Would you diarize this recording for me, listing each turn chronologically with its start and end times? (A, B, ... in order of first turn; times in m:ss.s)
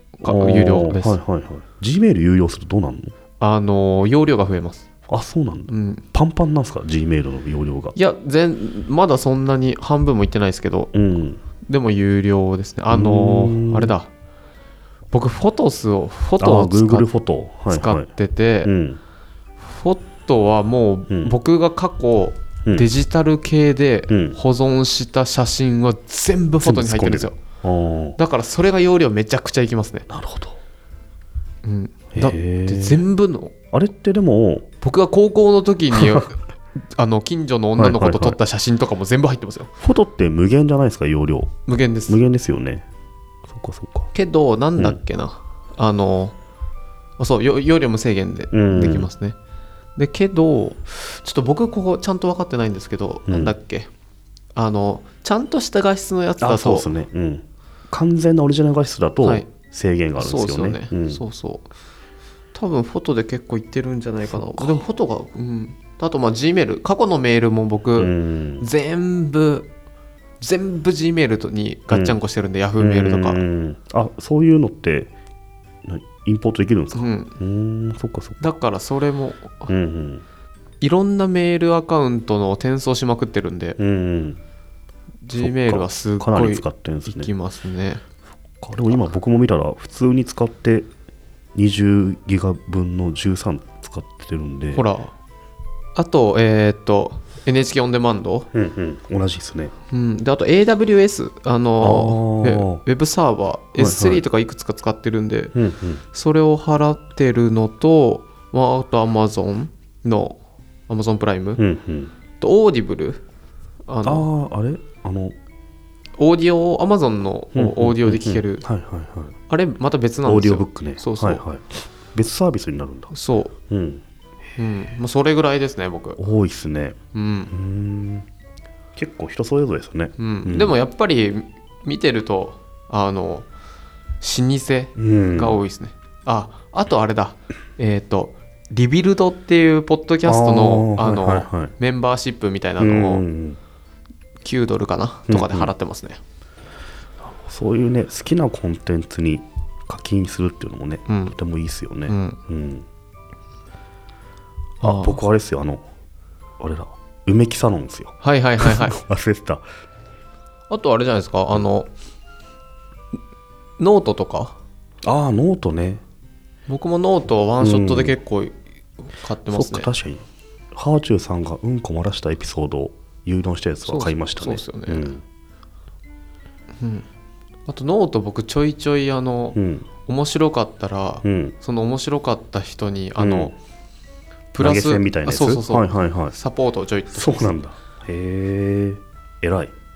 0:00.2-0:01.2 A
0:00.2-0:03.1 B
0:03.4-0:04.9 A
0:05.1-0:07.9 B
0:05.7-0:06.0 A
0:07.9-0:10.9 A
0:10.9-0:11.4 B
0:11.6-0:14.1 A
0:12.9-0:13.9 B
0:15.1-0:17.1 A
0:16.4-0:18.1 B
0:17.7-0:18.7 A
0:18.6-0:19.0 B
0:19.6-0:27.4 A
0:21.1-0:21.4 B
0:24.1-0:24.4 B
0:26.6-0:28.2 B
0:28.2-0:30.1 A
0:30.1-0:30.6 B
0:31.6-0:33.5 A
0:32.1-0:33.0 B
0:33.7-0:34.7 B
0:34.8-0:36.4 A
0:37.0-0:39.7 A
0:37.8-0:38.4 B
0:39.8-0:42.9 B
0:41.7-0:42.2 A
0:43.5-0:44.1 B
0:44.1-0:46.4 A
0:47.2-0:49.4 A
0:48.5-0:49.1 B
0:50.0-0:53.9 A
0:53.3-0:53.6 B
0:54.6-0:56.9 A
0:56.4-1:01.2 B
0:59.2-0:59.5 A
1:00.2-1:01.7 A
1:02.5-1:09.7 A
1:04.3-1:04.9 B
1:08.0-1:08.7 B
1:10.4-1:13.4 A
1:11.9-1:12.2 B
1:12.8-1:15.1 B
1:15.8-1:18.4 B
1:16.9-1:17.4 A
1:18.4-1:19.7 A
1:19.7-1:20.2 B
1:20.8-1:23.8 A
1:23.8-1:24.4 B
1:25.2-1:28.0 A
1:25.4-1:27.3 B
1:28.6-1:30.9 B
1:31.6-1:34.9 B
1:34.7-1:35.1 A
1:35.9-1:38.5 A
1:38.5-1:39.7 B
1:39.9-1:45.6 A
1:41.8-1:42.8 B
1:43.8-1:44.2 B
1:45.5-1:46.0 B
1:46.1-1:50.4 A
1:50.9-1:51.6 A
1:51.6-1:52.1 B
1:52.4-1:53.2 A
1:53.9-1:54.3 A
1:54.0-1:55.4 B
1:56.2-1:58.7 A
1:57.5-1:59.3 B
1:59.5-2:01.4 A
2:00.2-2:03.1 B
2:03.1-2:03.5 A
2:03.7-2:04.0 B
2:04.6-2:06.2 A
2:06.2-2:07.0 B
2:07.1-2:07.5 A
2:07.5-2:08.2 B
2:09.0-2:10.8 B
2:10.2-2:13.5 A
2:14.2-2:23.2 A
2:15.0-2:15.6 B
2:20.2-2:21.7 B
2:22.8-2:23.6 B
2:24.4-2:26.2 A
2:25.3-2:25.7 B
2:27.2-2:32.9 B
2:31.1-2:31.4 A
2:32.1-2:32.4 A
2:34.8-2:35.8 B
2:34.8-2:35.2 A
2:36.6-2:39.6 B
2:38.2-2:38.9 A
2:40.7-2:41.9 A
2:43.8-2:44.6 A
2:45.0-2:46.0 B
2:46.7-2:48.6 A
2:47.6-2:48.2 B
2:49.1-2:49.9 A
2:49.5-2:50.2 B
2:50.7-2:55.2 B
2:53.8-2:55.1 A
2:56.8-2:57.0 A
2:57.7-3:03.6 A
2:59.6-2:59.9 B
3:01.2-3:01.6 B
3:03.2-3:03.6 B
3:04.5-3:07.5 A
3:04.6-3:06.3 B
3:07.1-3:09.7 B